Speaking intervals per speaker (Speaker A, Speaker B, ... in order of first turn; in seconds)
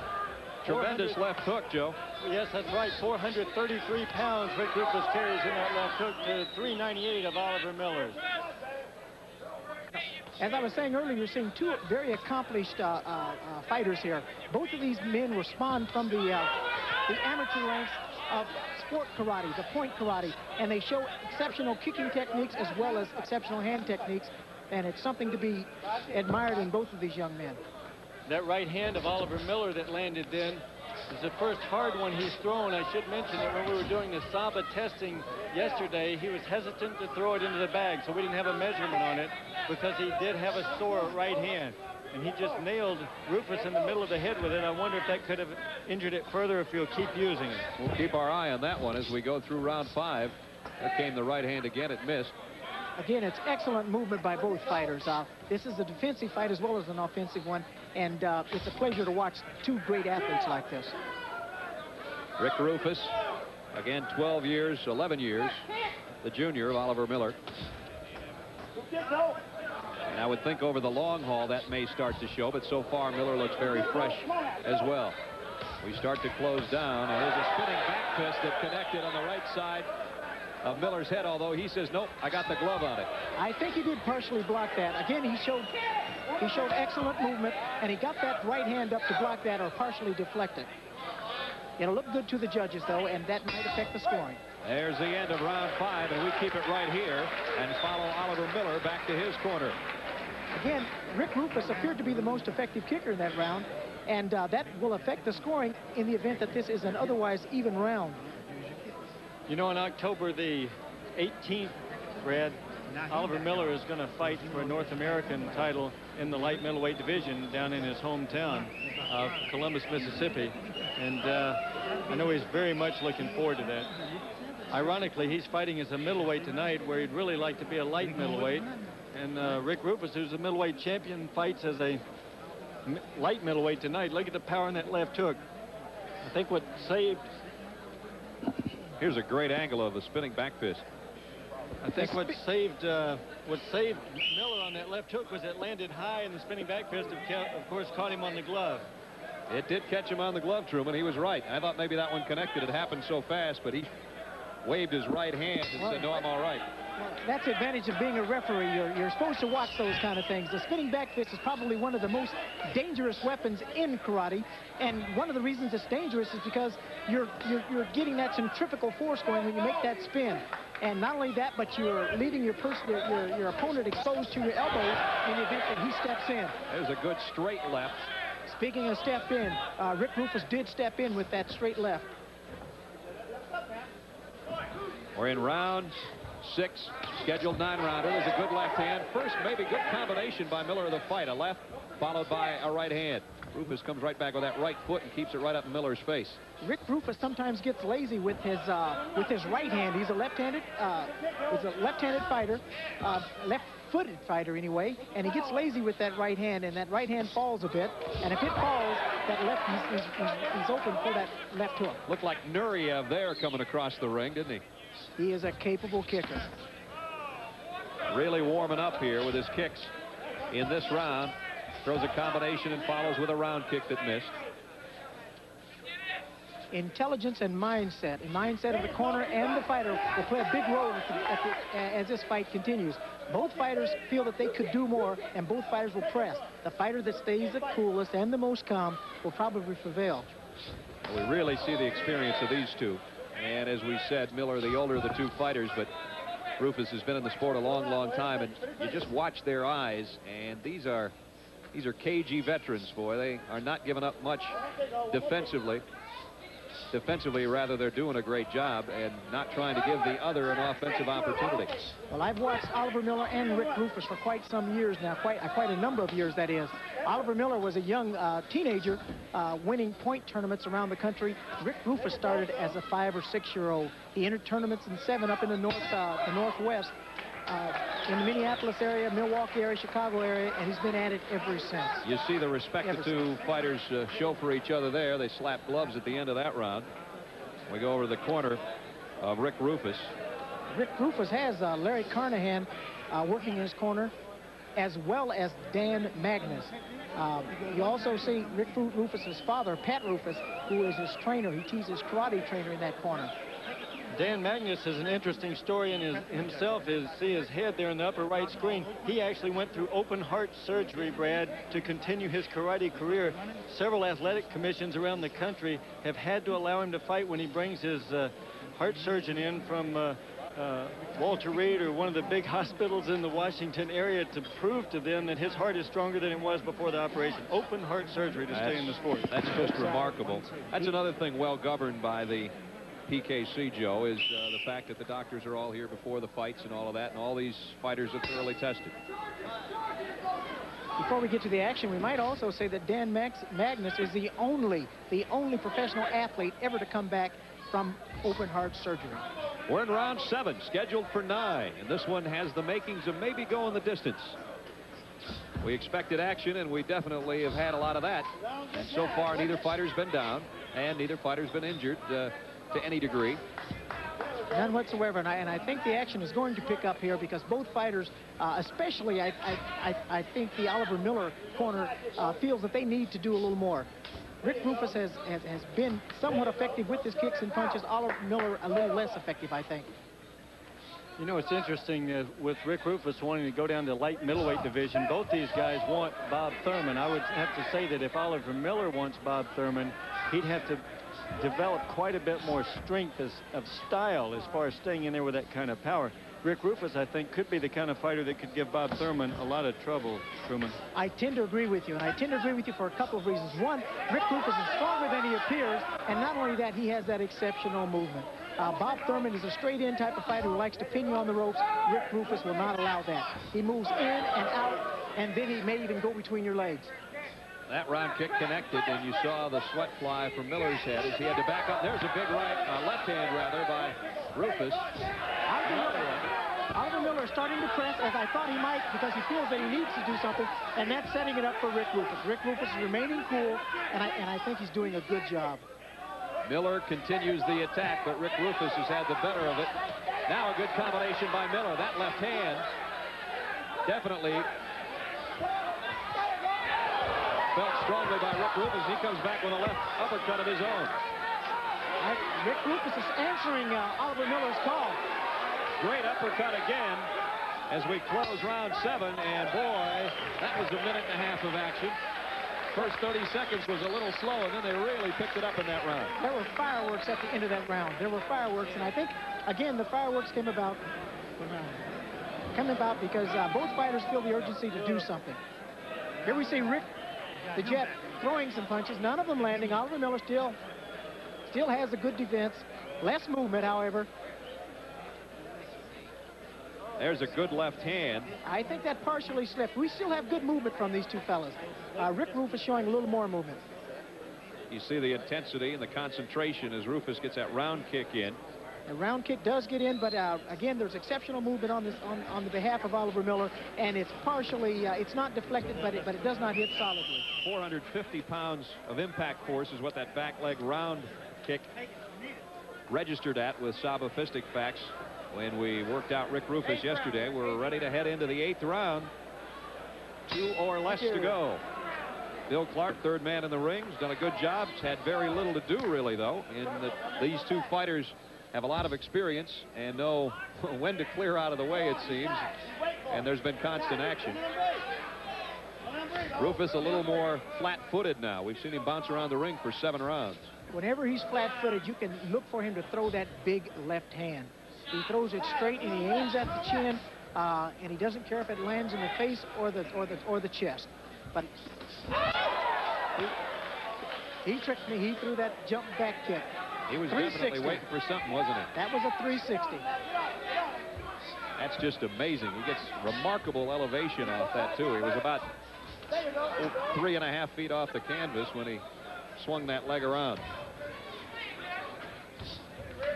Speaker A: 0.6-2.0, 47.8-52.3, 62.4-63.1, 63.7-65.7, 66.2-67.4, 70.1-75.2, 75.8-79.9, 80.6-83.1, 94.6-99.8, 139.0-140.8, 149.5-153.9, 154.6-156.7, 176.7-178.1, 185.1-196.4, 212.1-214.6, 218.1-219.9, 220.5-224.3, 241.0-245.9, 246.6-251.1, 251.7-255.8, 256.9-261.7, 282.0-286.9, 287.7-288.6, 289.2-290.1, 328.5-332.5, 333.1-338.9, 349.7-354.4, 355.6-363.4, 417.7-424.9, 436.4-439.7, 440.3-442.7, 443.9-444.5, 447.5-450.9, 455.8-457.1, 457.7-462.0, 462.7-466.1, 487.0-488.3, 494.7-498.4, 507.4-511.7, 512.9-519.1, 520.3-521.6, 522.5-532.5, 533.1-534.4, 536.4-540.5, 556.9-558.7, 561.6-565.5, 566.6-568.8, 569.4-570.4
Speaker B: 0.7-1.2, 2.2-8.2, 28.2-47.7, 109.5-123.9, 124.7-132.0, 132.8-135.4, 136.2-137.3, 141.8-148.9, 304.1-329.4, 381.2-390.8, 391.4-400.8
Speaker C: 9.9-16.5, 17.1-27.6, 53.0-60.9, 83.3-85.7, 86.4-90.7, 91.8-94.4, 100.5-108.2, 142.0-142.4, 155.8-156.1, 156.9-176.5, 178.4-182.1, 196.6-212.0, 215.2-216.5, 226.7-240.3, 262.1-276.9, 277.5-282.1, 282.8-283.1, 290.7-294.1, 294.8-303.3, 341.0-349.2, 364.5-373.9, 374.4-379.9, 400.9-416.9, 425.5-435.6, 452.0-455.0, 466.2-470.8, 471.4-471.8, 472.5-475.4, 476.2-476.9, 477.5-480.6, 481.5-484.1, 488.4-493.6, 498.9-507.2, 540.7-551.5, 554.4-556.5, 557.1-557.8, 558.7-559.9